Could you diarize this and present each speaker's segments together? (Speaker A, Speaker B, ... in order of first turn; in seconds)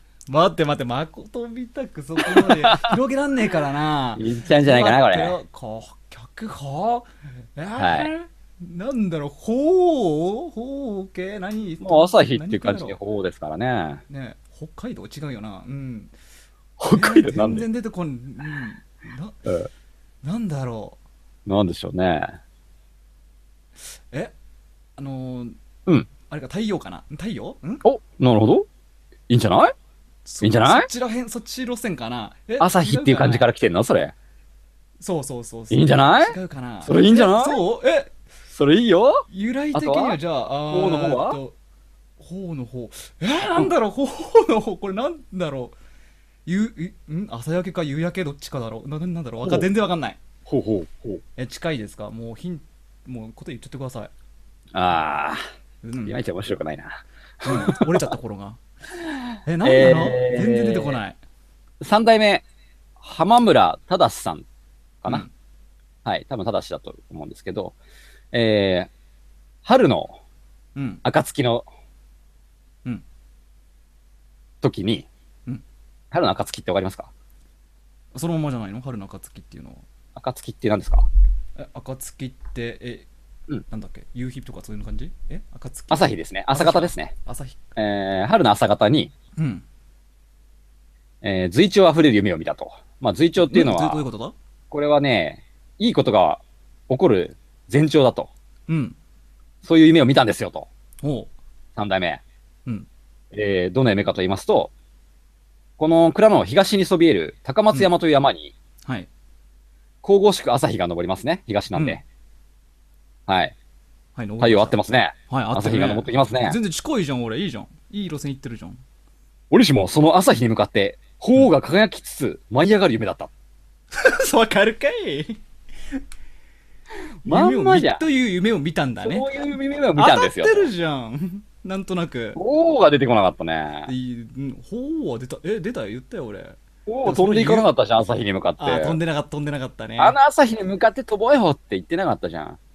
Speaker A: 0.3-13.0, 14.1-16.1, 16.9-19.4, 20.2-21.0, 23.9-24.3, 25.0-25.6, 26.3-27.8, 30.2-33.5, 35.0-38.1, 39.3-41.6, 42.2-45.7, 46.5-50.2, 51.4-54.1, 55.8-56.2, 57.4-58.6, 59.4-61.2, 70.7-71.0, 78.1-79.8, 81.6-83.1, 83.7-87.7, 89.4-89.6, 93.4-94.3, 98.7-99.0, 101.0-101.3, 111.7-112.0, 114.1-118.8, 123.9-125.4, 127.2-129.3, 129.9-132.4, 133.9-137.7, 138.6-140.2
Speaker B: 2.3-2.9, 4.2-5.4, 7.8-8.1, 11.8-14.0, 16.8-17.6, 21.4-22.4, 27.8-28.7, 29.3-29.7, 30.4-30.9, 32.6-34.1, 35.7-37.6, 38.5-40.2, 40.7-41.4, 49.4-49.7, 50.5-51.2, 54.7-55.4, 56.1-58.1, 59.6-61.0, 61.8-62.4, 63.0-64.4, 66.0-67.8, 68.3-68.9, 69.6-70.2, 71.0-71.7, 74.6-75.1, 76.1-77.1, 80.2-81.1, 85.9-87.1, 87.8-89.1, 91.2-94.0, 94.7-98.3, 99.6-100.7, 101.8-102.2, 103.3-104.7, 105.8-108.5, 110.0-112.0, 113.3-113.5, 114.4-116.6, 119.5-123.3, 127.2-128.0, 129.0-130.7, 132.4-133.9, 136.9-139.0, 140.0-142.6